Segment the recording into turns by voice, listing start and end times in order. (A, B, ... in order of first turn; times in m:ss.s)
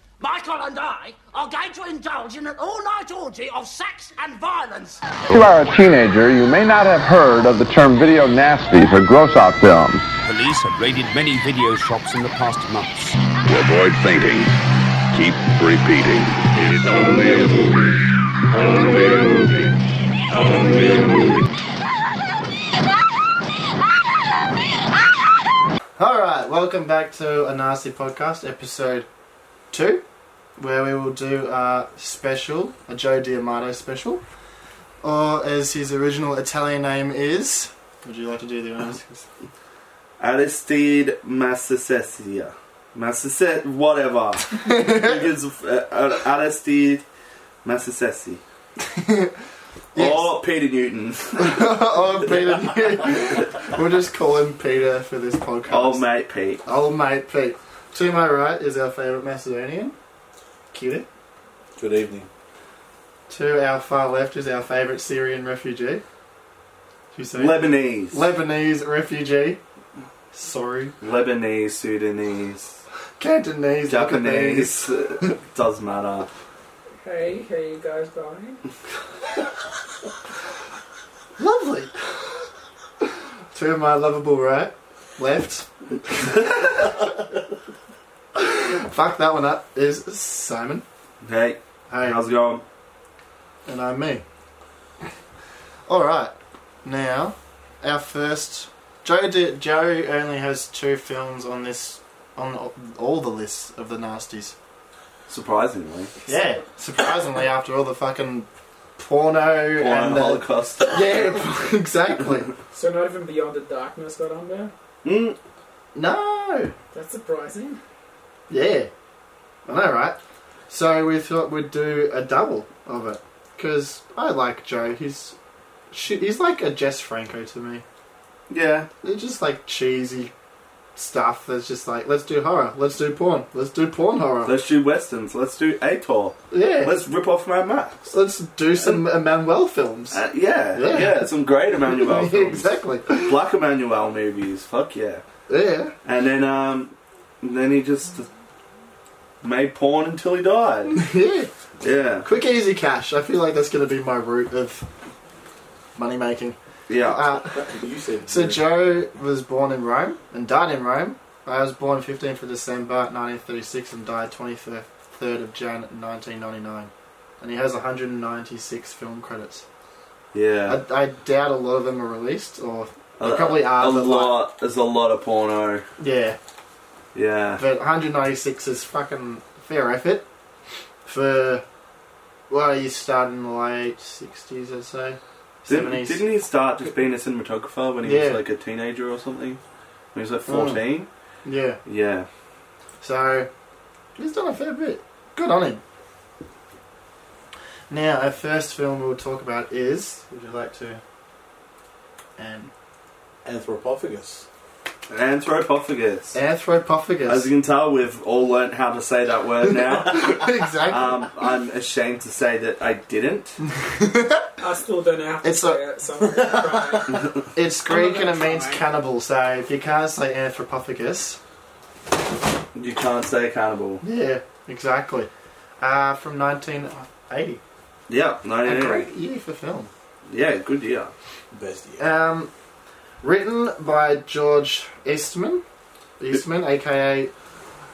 0:00.2-0:05.0 A
0:05.3-0:10.0 B
0:10.2-0:13.2 C
0:13.5-0:14.6 D
0:15.1-0:18.0 D
0:18.5-0:19.7 D
0:20.3-0:21.4 D
0:26.0-0:29.1 E
0:29.7-0:30.0 E
0:30.6-0:34.2 E
0:35.0-0:39.3 E
0:40.2-0:47.0 F
0:44.5-0:45.2 E
0:47.6-0:48.4 F
0:48.8-0:49.4 E
0:49.9-0:50.4 E
0:50.0-0:52.6 F
0:51.4-0:56.0 E
0:55.7-0:56.6 F
0:56.6-1:00.0 E
1:00.7-1:01.1 E
1:01.8-1:02.3 G
1:03.3-1:06.0 E
1:07.1-1:09.6 E
1:07.3-1:08.3 F
1:10.3-1:10.9 E
1:11.0-1:12.8 F
1:13.2-1:15.3 E
1:13.9-1:16.3 F
1:17.0-1:18.6 H
1:21.4-1:21.9 E
1:23.5-1:27.1 E
1:28.4-1:30.8 E
1:31.2-1:32.6 F
1:31.9-1:32.2 E
1:33.7-1:34.2 E
1:35.9-1:44.6 E
1:45.3-1:46.1 F
1:46.3-1:46.6 H
1:46.3-1:52.5 E
1:49.8-1:51.2 F
1:52.7-1:54.7 H
1:55.0-1:55.4 F
1:55.9-1:56.7 E
1:56.9-1:57.8 H
1:58.5-1:58.9 E
1:59.7-2:00.2 E
2:00.7-2:05.4 E
2:05.9-2:07.8 E
2:08.5-2:08.9 F
2:09.0-2:10.3 E
2:11.0-2:14.5 E
2:14.4-2:18.1 F
2:16.5-2:17.0 E
2:18.1-2:21.3 E
2:20.1-2:25.2 F
2:21.8-2:23.4 E
2:25.5-2:25.9 E
2:26.0-2:28.3 F
2:29.4-2:31.0 F
2:31.0-2:31.5 E
2:31.8-2:32.3 F
2:32.2-2:34.9 E
2:36.0-2:37.7 E
2:36.9-2:37.2 F
2:37.5-2:38.9 G
2:38.3-2:49.6 E
2:50.3-2:50.8 F
2:50.7-2:54.4 E
2:53.2-2:55.9 F
2:56.0-2:56.4 E
2:57.1-2:57.6 F
2:57.6-3:00.3 E
3:01.1-3:01.6 E
3:02.5-3:06.2 E
3:05.7-3:09.6 F
3:08.0-3:08.4 E
3:10.1-3:11.1 F
3:10.5-3:10.8 E
3:11.4-3:11.8 E
3:11.8-3:12.3 F
3:13.0-3:13.5 E
3:14.2-3:15.8 E
3:17.9-3:21.0 E
3:22.4-3:22.7 E
3:23.4-3:24.5 G
3:25.1-3:26.4 F
3:26.3-3:27.5 E
3:27.3-3:33.6 F
3:29.6-3:31.3 E
3:33.6-3:34.5 E
3:34.6-3:37.4 H
3:35.4-3:35.8 E
3:37.5-3:41.4 E
3:37.9-3:38.8 H
3:42.7-3:44.0 F
3:44.0-3:45.3 E
3:45.8-3:47.6 E
3:48.1-3:49.1 F
3:48.6-3:49.9 E
3:50.3-3:51.1 F
3:51.5-3:52.1 G
3:52.0-3:52.5 E
3:53.2-3:55.6 E
3:56.2-3:57.3 E